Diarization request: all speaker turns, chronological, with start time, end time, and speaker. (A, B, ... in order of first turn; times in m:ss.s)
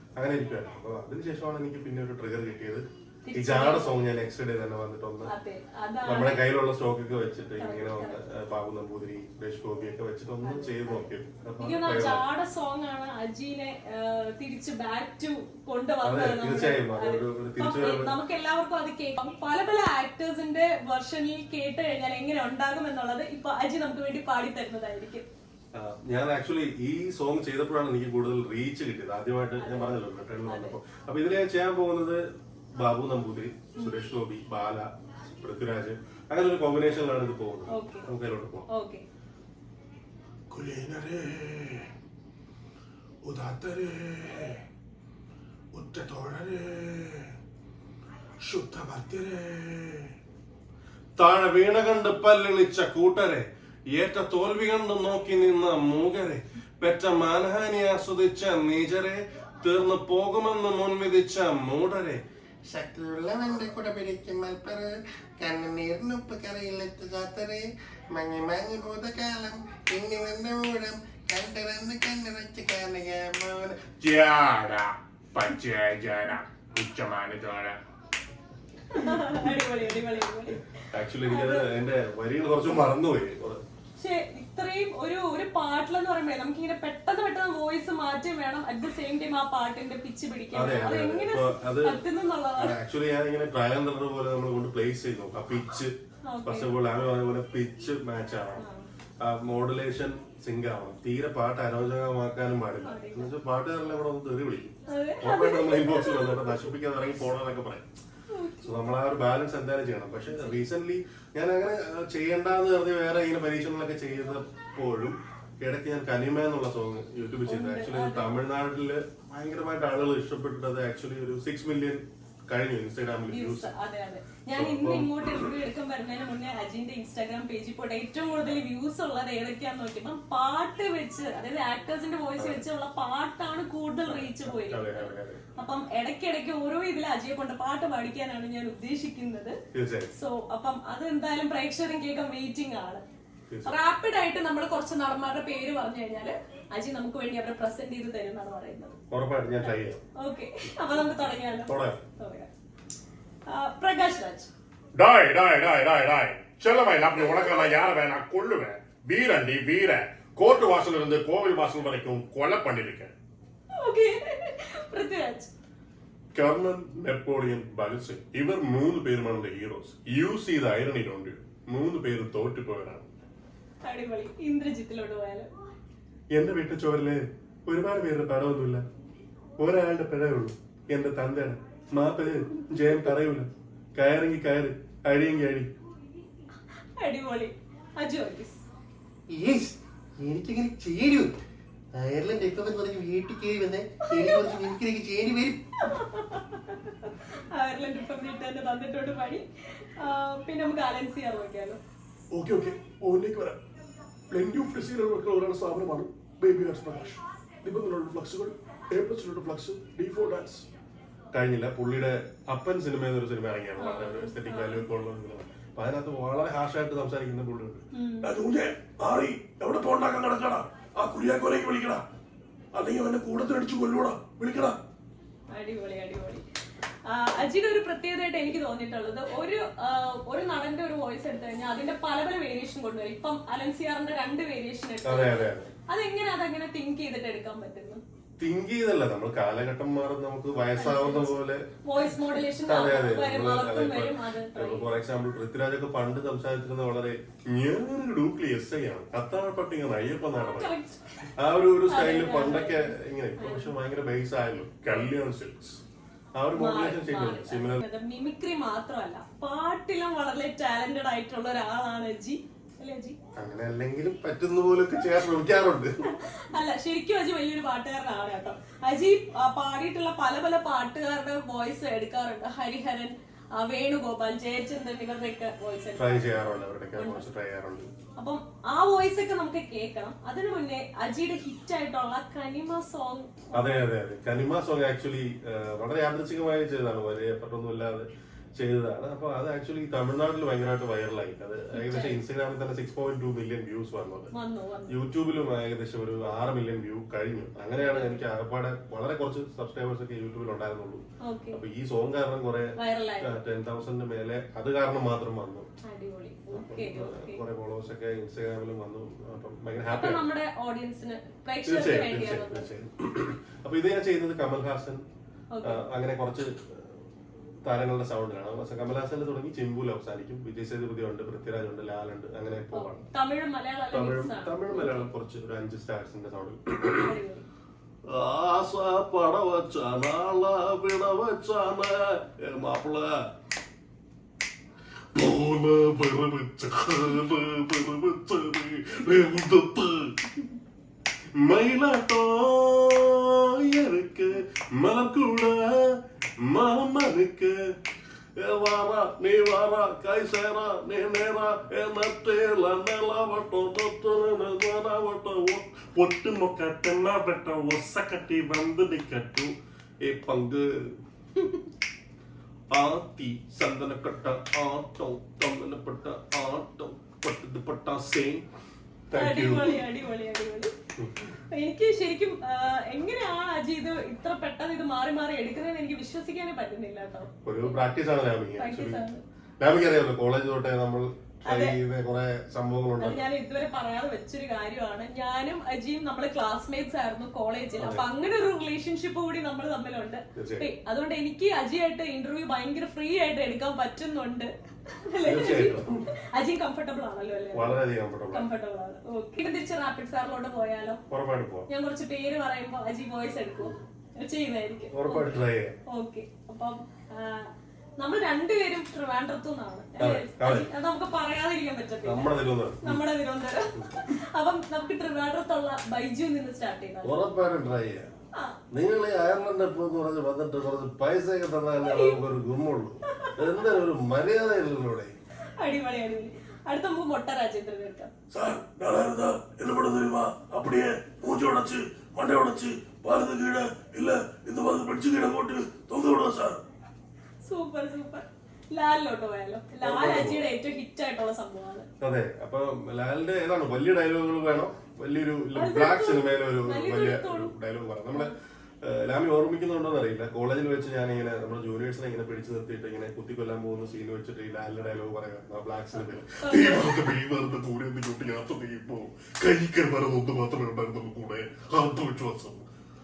0:00.2-0:05.3 A
0:03.2-0:04.0 B
0:05.2-0:06.4 B
0:06.0-0:12.2 A
0:07.6-0:08.2 B
0:10.4-0:11.0 B
0:11.6-0:25.2 B
0:16.0-0:18.1 A
0:25.7-0:32.2 A
0:29.6-0:30.8 B
0:32.7-0:38.7 A
0:37.7-0:38.1 B
0:38.7-0:39.0 B
0:40.5-0:41.7 A
0:43.2-0:44.5 A
0:45.7-0:47.3 A
0:48.4-0:50.1 A
0:51.2-1:02.2 A
1:02.7-1:13.8 C
1:14.0-1:17.8 D
1:18.9-1:21.7 B
1:20.9-1:23.6 A
1:24.0-1:32.8 B
1:30.5-1:32.0 A
1:32.6-1:35.9 A
1:36.2-1:36.8 B
1:36.4-1:38.6 A
1:38.6-1:38.8 B
1:39.2-1:47.9 A
1:42.8-1:43.3 B
1:44.9-1:46.5 B
1:48.3-1:48.7 B
1:48.6-2:03.7 A
1:50.3-1:50.6 B
1:57.5-1:58.4 B
2:03.3-2:19.6 B
2:04.5-2:05.5 A
2:14.0-2:15.4 A
2:19.7-2:20.1 A
2:20.1-2:23.0 B
2:23.5-2:23.7 A
2:23.6-2:29.0 B
2:29.1-2:30.0 A
2:29.6-2:32.5 B
2:31.7-2:32.0 A
2:33.5-2:34.5 B
2:34.9-2:43.1 D
2:43.7-2:45.5 B
2:46.3-2:53.1 A
2:53.8-2:55.5 B
2:56.3-2:58.8 A
2:59.6-3:05.7 A
3:07.0-3:08.6 B
3:12.9-3:13.3 C
3:14.0-3:14.7 C
3:14.1-3:14.7 B
3:15.8-3:21.8 B
3:22.3-3:23.6 E
3:24.3-3:30.6 E
3:31.3-3:37.8 A
3:33.8-3:34.8 B
3:37.9-3:38.3 B
3:38.2-3:42.0 E
3:42.7-3:44.8 E
3:45.5-3:46.4 B
3:47.0-3:58.0 B
3:55.0-3:55.7 A
3:58.4-4:01.6 A
4:00.8-4:04.9 B
4:02.6-4:10.7 A
4:10.4-4:11.2 B
4:11.4-4:15.8 A
4:11.9-4:13.7 B
4:16.4-4:17.8 A
4:16.5-4:23.2 B
4:23.4-4:25.9 A
4:26.0-4:36.4 B
4:35.9-4:37.9 A
4:37.0-4:37.2 B
4:38.2-4:43.6 B
4:43.5-4:54.3 A
4:51.7-4:52.2 B
4:54.3-4:55.0 B
4:54.9-5:05.7 A
4:57.8-4:58.2 B
5:01.2-5:01.6 B
5:02.8-5:03.4 B
5:05.8-5:07.4 B
5:06.5-5:10.2 A
5:09.9-5:12.7 B
5:11.6-5:15.0 A
5:15.5-5:15.8 B
5:15.6-5:17.0 A
5:17.6-5:23.0 A
5:22.7-5:25.1 B
5:23.9-5:27.1 A
5:27.0-5:27.5 B
5:28.1-5:33.1 A
5:35.1-5:40.1 A
5:41.4-5:47.6 A
5:48.4-5:59.5 A
6:00.0-6:00.7 A
6:02.7-6:08.4 A
6:09.1-6:09.8 A
6:09.1-6:10.7 B
6:11.5-6:17.7 B
6:17.4-6:19.0 A
6:18.6-6:19.2 B
6:19.6-6:23.2 A
6:21.5-6:21.8 B
6:23.0-6:41.0 B
6:27.8-6:28.0 A
6:30.3-6:30.7 A
6:35.2-6:36.0 A
6:37.5-6:38.5 A
6:41.1-6:41.7 A
6:41.7-6:45.2 B
6:44.9-6:45.8 A
6:45.9-6:57.2 B
6:50.0-6:50.7 A
6:52.0-6:53.0 A
6:57.0-6:58.1 A
6:58.7-7:05.1 A
7:01.8-7:02.2 B
7:03.1-7:03.4 B
7:05.6-7:08.1 B
7:08.3-7:16.6 E
7:17.4-7:21.9 B
7:19.8-7:20.4 A
7:22.0-7:40.1 A
7:25.5-7:27.5 B
7:36.4-7:36.9 B
7:36.6-7:37.7 E
7:38.6-7:42.6 E